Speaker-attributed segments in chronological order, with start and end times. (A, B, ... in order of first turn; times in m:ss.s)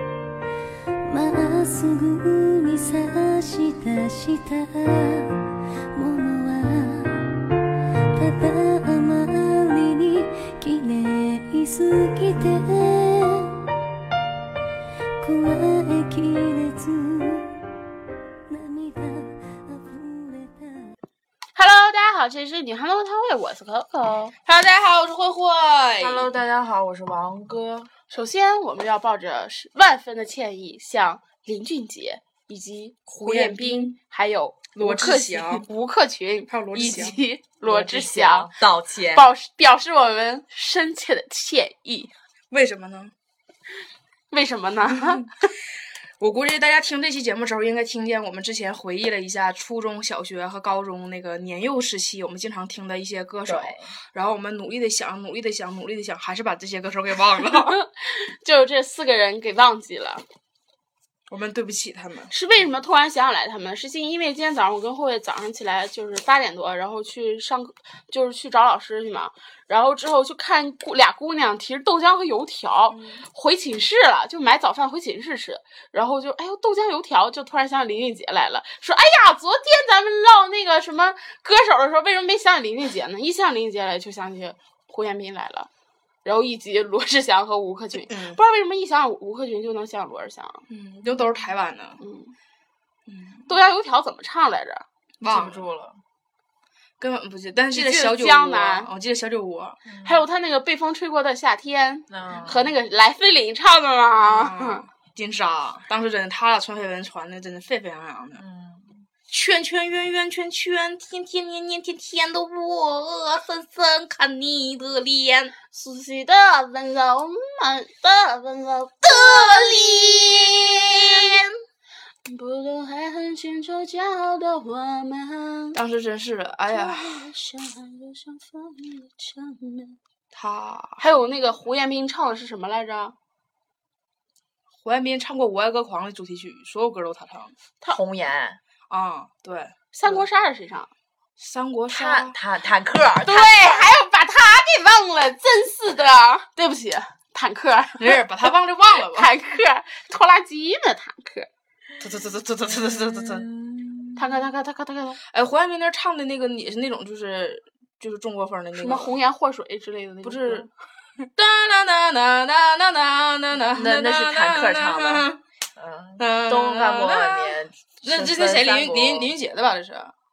0:01.0-0:07.4 A
0:08.1-0:13.6 A
0:15.2-0:17.6 A
0:18.5-0:20.9 A
0:21.5-0:24.3 B
0:24.4-0:26.3 C
0:26.0-0:27.9 D
0:28.1-0:38.5 B
0:33.1-0:34.0 C
0:34.8-0:35.6 C
0:36.5-0:37.2 C
0:37.6-0:39.3 D
0:39.1-0:42.1 B
0:42.5-0:43.1 C
0:44.3-0:45.3 B
0:44.9-0:45.3 C
0:46.2-0:57.8 C
0:53.4-0:53.9 D
0:57.5-1:00.2 B
1:01.3-1:02.3 C
1:02.3-1:25.7 B
1:12.9-1:13.2 C
1:26.2-1:30.6 B
1:28.0-1:28.4 C
1:30.7-1:32.0 C
1:32.0-1:32.3 B
1:33.1-1:33.4 C
1:33.5-1:34.8 B
1:35.2-1:35.7 C
1:35.2-1:36.0 D
1:37.0-1:39.8 C
1:37.7-1:38.9 B
1:39.8-1:40.2 D
1:40.0-1:44.8 B
1:42.1-1:42.7 D
1:44.2-1:48.4 C
1:48.4-1:49.1 D
1:49.3-1:55.5 C
1:55.7-2:01.4 B
1:59.0-2:01.4 C
2:02.2-2:05.8 B
2:05.7-2:07.2 C
2:06.7-2:10.0 B
2:10.3-2:11.0 C
2:11.0-2:13.1 B
2:14.8-2:17.5 C
2:17.9-2:18.6 D
2:18.9-2:20.2 C
2:19.9-2:20.9 B
2:21.4-2:22.4 C
2:21.9-2:23.8 D
2:23.2-2:28.5 B
2:28.0-2:29.3 C
2:29.0-2:31.5 B
2:32.0-2:33.5 C
2:32.6-2:34.2 D
2:34.2-2:35.2 B
2:35.3-2:39.1 C
2:38.7-2:40.7 B
2:40.2-2:40.7 C
2:41.3-2:45.4 C
2:43.7-2:49.3 D
2:46.2-2:50.1 C